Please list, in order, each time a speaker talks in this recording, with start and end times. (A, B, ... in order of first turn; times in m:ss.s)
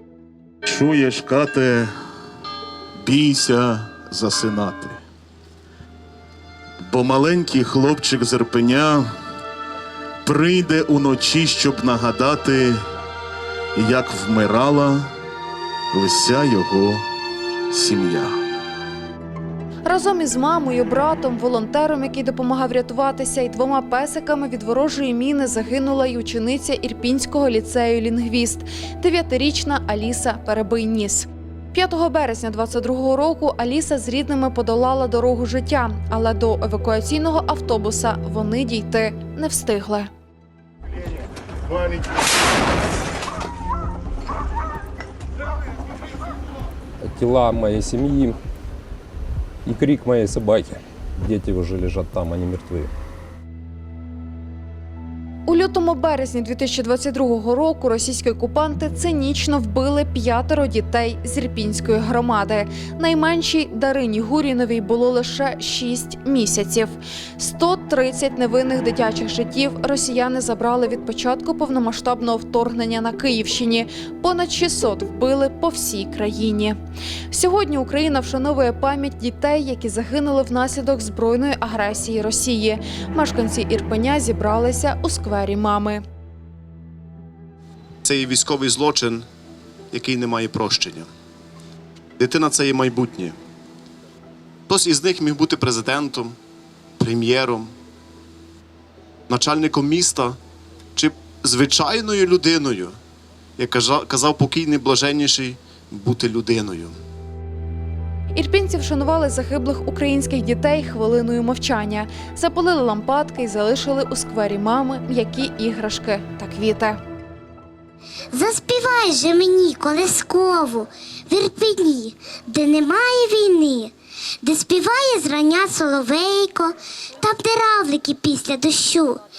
0:00.6-0:01.9 A
0:03.0-0:05.0 A
0:06.8-0:09.1 A
0:10.2-0:12.8 A
0:13.7-0:15.1 A
0:15.9-0:17.0 A
0:17.7-0:18.4 A
0:19.8-0:40.1 B
0:47.0-0:48.4 C
0:49.6-0:52.9 C
0:55.5-1:16.8 B
1:17.3-1:26.0 B
1:28.0-1:29.2 D
1:29.9-1:31.1 D
1:32.2-1:33.4 D
1:34.7-1:36.3 D
1:37.0-1:37.7 D
1:39.3-1:40.4 D
1:41.0-1:43.0 D
1:43.6-1:46.9 D
1:48.3-1:57.0 B
1:58.3-2:09.2 E